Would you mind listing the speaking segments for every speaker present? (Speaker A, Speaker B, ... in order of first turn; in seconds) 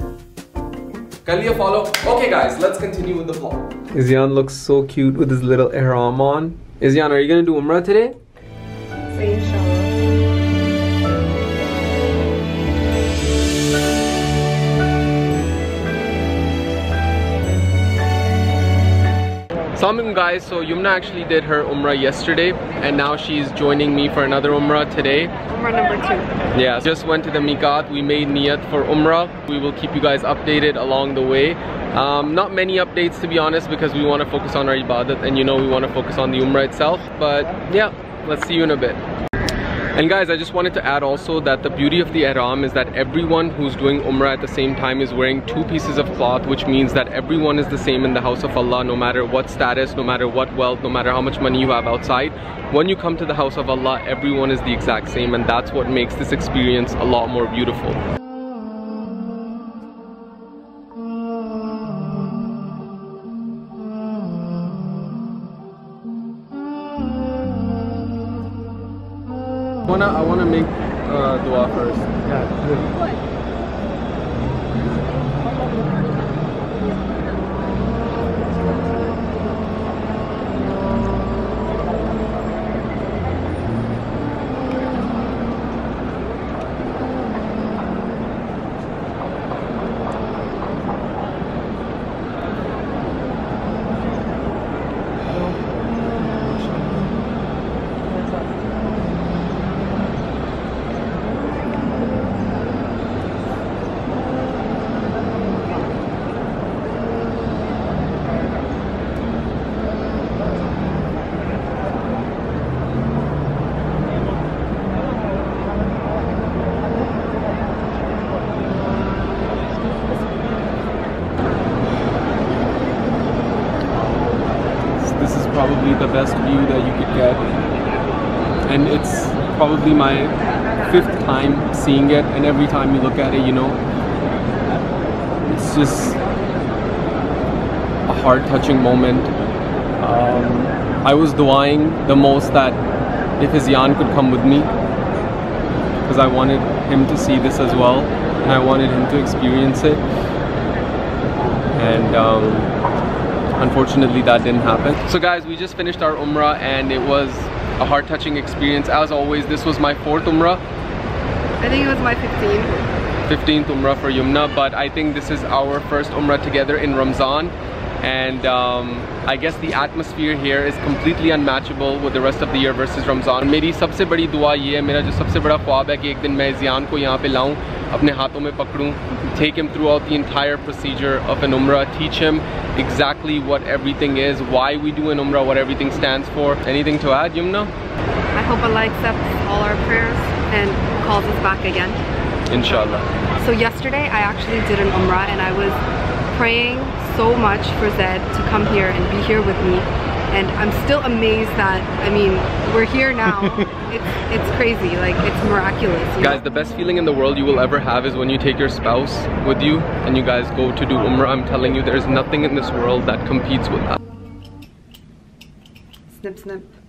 Speaker A: 1.2-8.2, 19.7-25.3, 26.5-39.0, 39.9-58.0, 69.9-72.9, 96.1-97.1, 125.0-127.4, 128.6-133.8, 135.4-136.2, 138.1-139.3, 140.0-142.8, 143.4-144.7, 146.1-150.0, 151.8-152.7, 153.6-160.6, 163.2-187.7, 192.5-193.1, 203.3-203.6, 206.2-214.0
Speaker B: 9.1-9.9, 25.5-26.3, 72.9-73.1, 75.0-76.0, 161.6-162.9, 188.3-192.0, 192.6-195.8, 196.3-206.4, 216.1-216.7